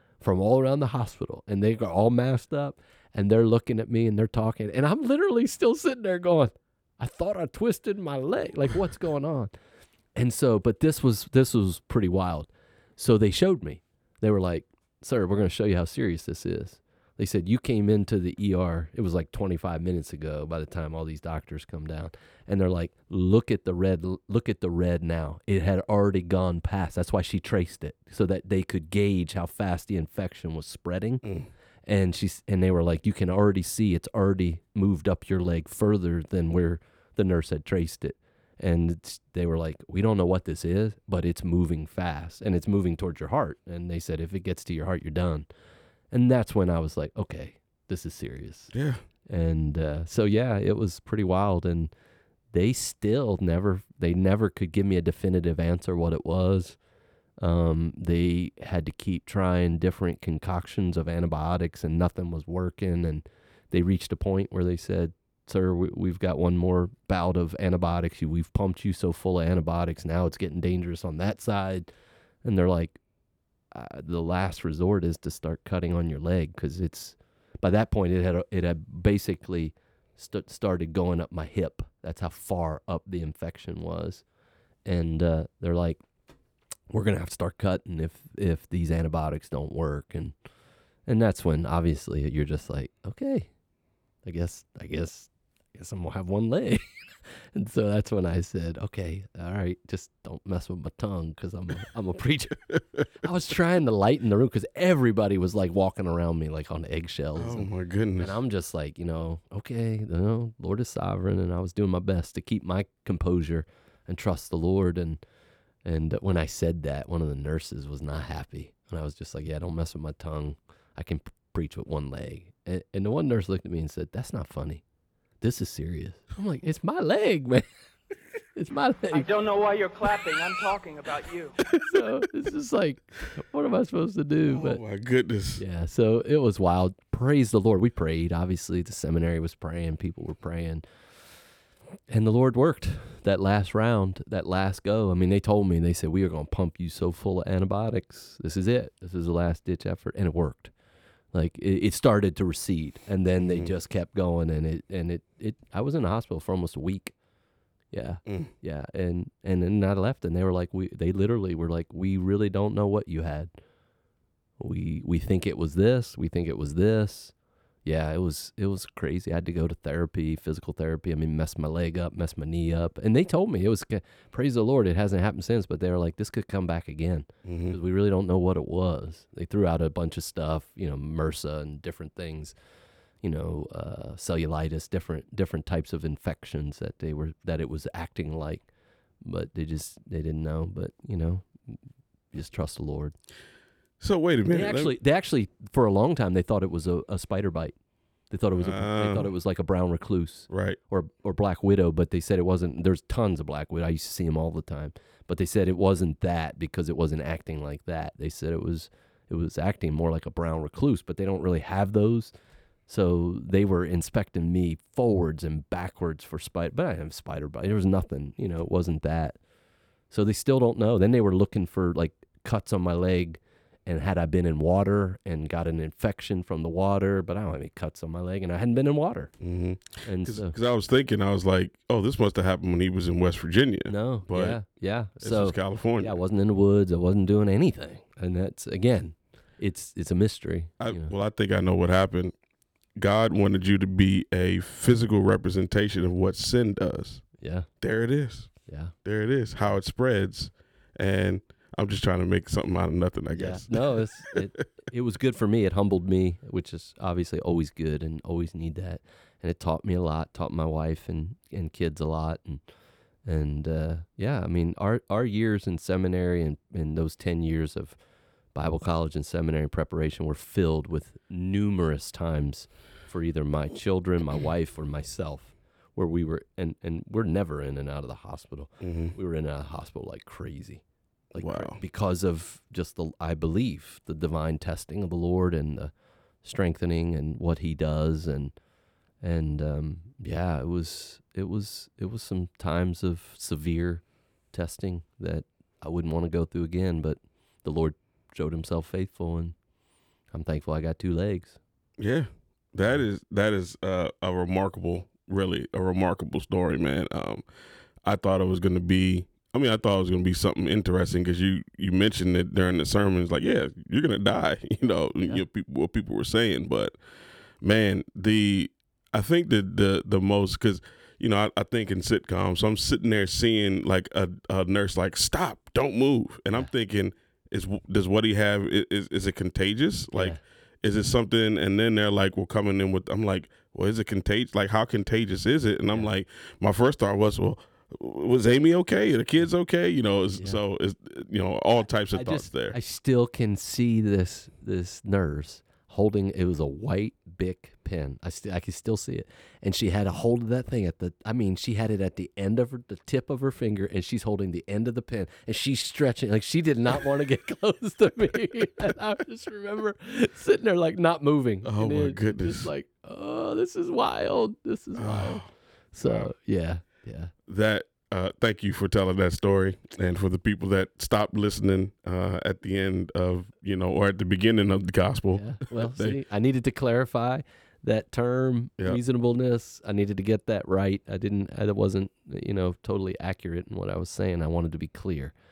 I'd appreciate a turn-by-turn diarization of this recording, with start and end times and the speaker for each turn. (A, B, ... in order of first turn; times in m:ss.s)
0:00.2-0:09.5 A
0:10.2-0:31.2 A
0:31.2-0:31.5 B
0:31.8-0:45.5 A
0:46.1-0:48.7 A
0:48.7-0:49.0 B
0:49.2-0:51.9 A
0:52.5-0:56.8 A
0:57.4-1:11.9 A
1:12.4-1:13.0 A
1:13.7-1:24.2 A
1:24.8-1:26.0 A
1:26.9-1:30.3 A
1:31.0-1:33.5 A
1:34.2-1:36.8 A
1:37.5-1:42.7 A
1:43.2-1:55.2 A
1:47.4-1:48.4 B
1:55.8-2:04.8 A
2:05.4-2:07.6 A
2:08.5-2:09.3 A
2:09.1-2:11.5 C
2:11.8-2:14.8 A
2:14.4-2:15.6 B
2:15.6-2:20.8 A
2:22.1-2:30.7 A
2:31.3-2:37.1 A
2:33.4-2:33.7 B
2:37.9-2:43.5 A
2:38.2-2:38.5 B
2:44.6-2:47.3 A
2:47.8-3:02.5 A
2:57.4-2:57.8 B
3:03.2-3:08.7 A
3:09.2-3:11.8 A
3:12.3-3:13.2 A
3:14.0-3:14.9 B
3:14.5-3:17.8 A
3:18.3-3:32.3 A
3:18.5-3:19.3 B
3:20.5-3:20.8 B
3:32.9-3:39.4 A
3:40.1-3:49.3 A
3:49.4-3:54.6 B
3:50.0-3:50.5 A
3:53.9-4:01.1 A
3:55.2-3:56.2 B
4:00.8-4:02.3 B
4:03.0-4:07.2 B
4:07.4-4:07.7 A
4:07.8-4:08.5 B
4:08.6-4:08.9 A
4:09.0-4:14.3 B
4:13.3-4:22.6 A
4:23.2-4:28.0 A
4:28.5-4:45.9 A
4:38.8-4:39.1 B
4:41.4-4:41.8 B
4:46.4-4:48.5 A
4:49.2-4:59.6 A
5:00.3-5:01.6 A
5:02.0-5:07.4 B
5:08.0-5:17.0 B
5:17.6-5:42.8 B
5:30.1-5:30.4 A
5:42.1-6:07.3 A
6:01.6-6:02.7 B
6:05.0-6:05.5 B
6:06.0-6:06.3 B
6:07.5-6:16.2 B
6:15.3-6:25.3 A